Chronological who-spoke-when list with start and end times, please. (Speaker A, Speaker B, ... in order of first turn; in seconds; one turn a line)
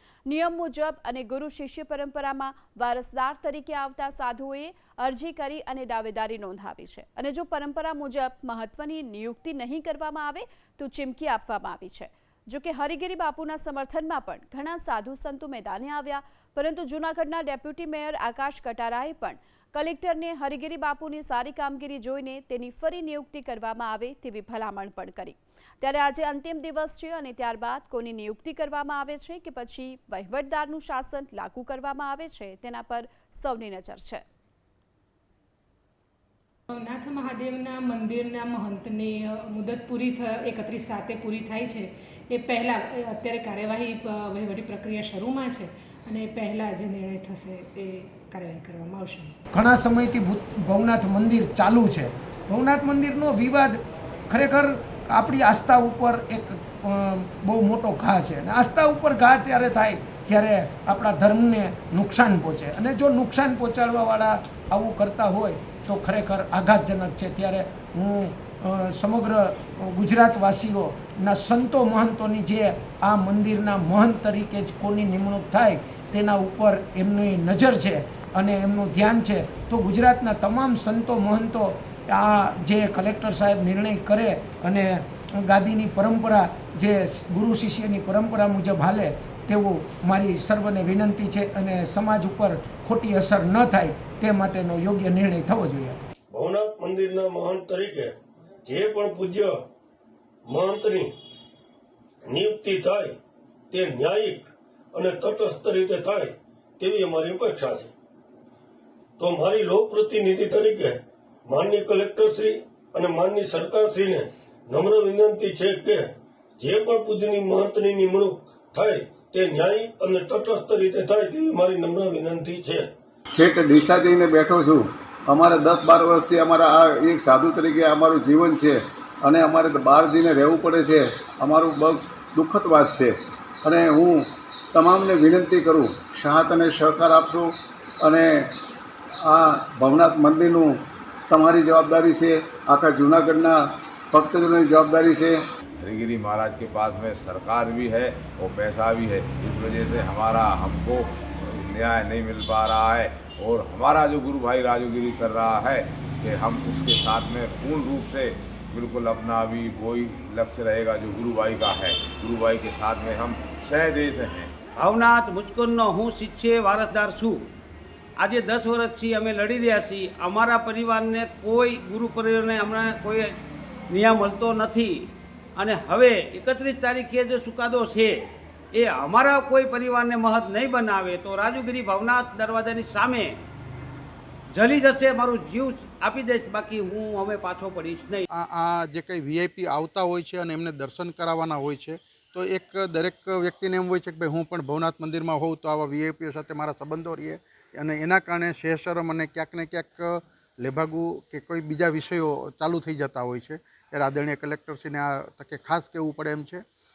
Speaker A: 0.3-34.2
Speaker B: 36.7-49.4
Speaker C: 49.5-96.0
Speaker D: 96.3-98.1
Speaker D: 98.7-99.6
Speaker D: 100.5-101.1
Speaker D: 102.3-103.2
Speaker D: 103.7-107.9
Speaker D: 109.2-122.9
Speaker E: 123.3-138.5
Speaker E: 139.2-145.4
Speaker F: 145.8-164.5
Speaker G: 164.8-167.5
Speaker G: 168.2-173.4
Speaker G: 173.9-183.4
Speaker G: 184.5-188.2
Speaker H: 188.3-206.6